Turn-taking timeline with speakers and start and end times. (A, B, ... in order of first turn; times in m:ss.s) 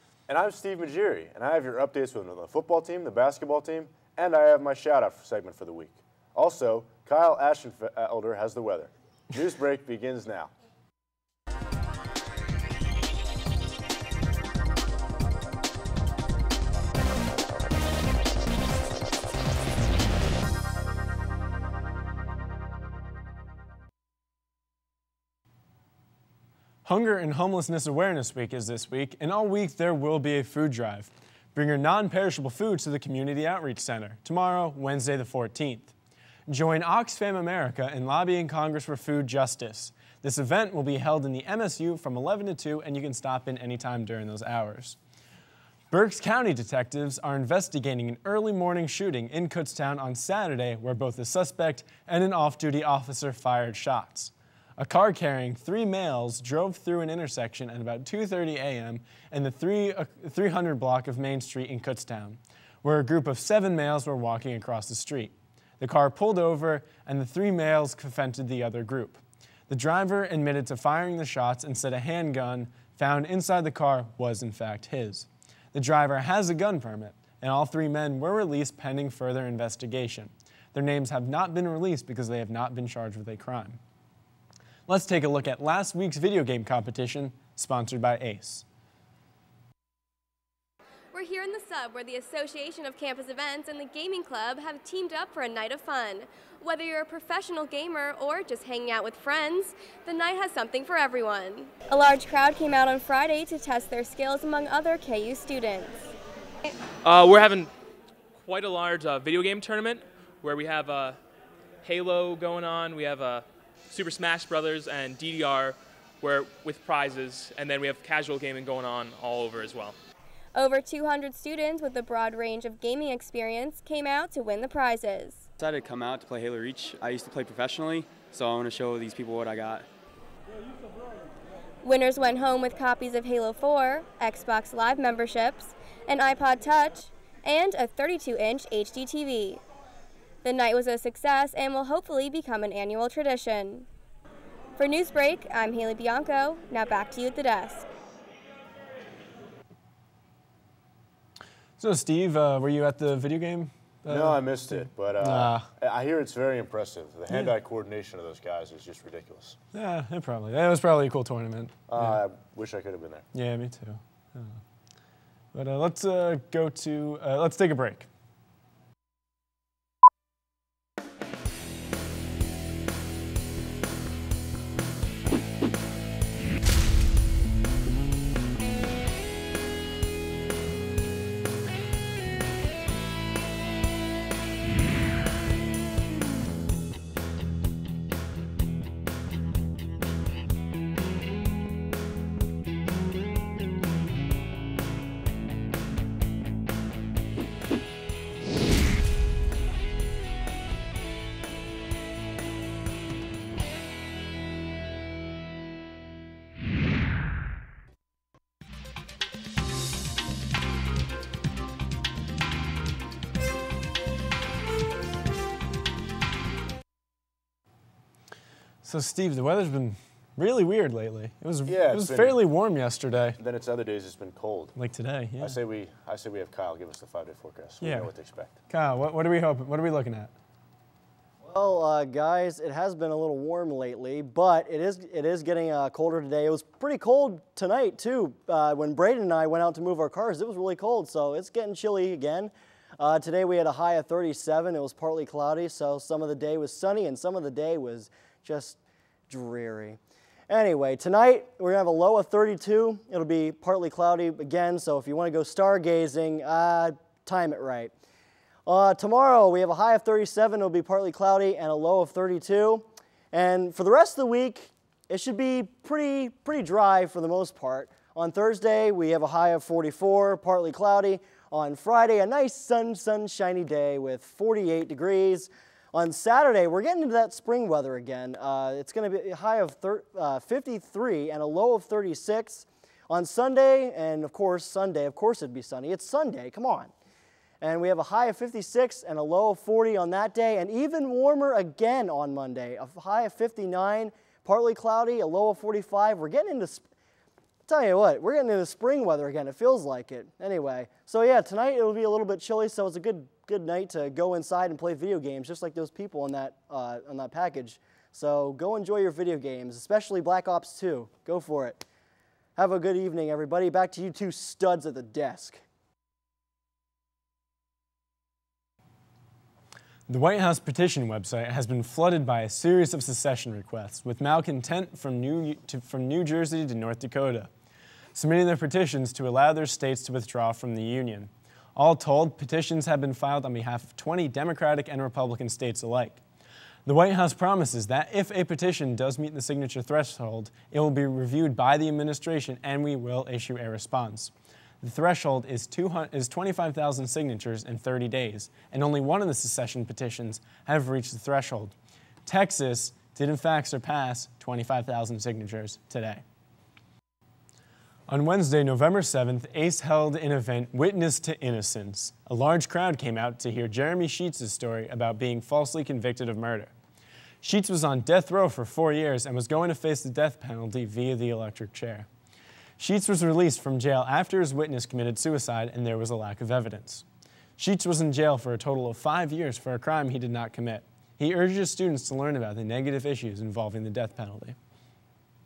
0:00.3-0:10.5 A
0:26.8-0:35.9 B
0:36.5-0:45.0 B
0:45.9-1:23.8 B
1:24.9-1:28.6 B
1:31.1-1:46.1 C
1:47.0-1:47.7 D
1:48.4-1:51.2 D
1:51.8-2:00.0 D
2:00.5-2:05.5 C
2:05.6-2:09.9 E
2:11.8-2:19.6 C
2:20.4-2:23.9 C
2:24.8-2:27.8 C
2:31.8-2:35.7 B
2:34.1-2:39.6 A
2:39.7-2:42.2 B
2:41.9-2:43.3 A
2:43.3-2:44.6 B
2:45.5-2:48.1 B
3:38.8-3:43.4 B
3:41.7-3:42.4 A
3:43.4-3:44.8 A
3:44.8-3:45.6 B
3:45.4-3:48.5 A
3:47.8-3:48.1 B
3:48.7-3:50.3 B
3:51.4-4:08.8 F
4:09.3-4:10.0 F
4:10.5-4:17.9 F
4:18.7-4:46.9 F
4:47.6-4:56.9 F
4:57.7-5:11.8 F
5:12.6-5:15.6 F
5:20.1-5:27.5 B
5:28.2-5:36.2 B
5:36.9-5:56.2 B
5:58.1-6:06.7 B
6:07.4-6:12.1 B
6:12.8-6:17.0 B
6:17.6-6:24.6 B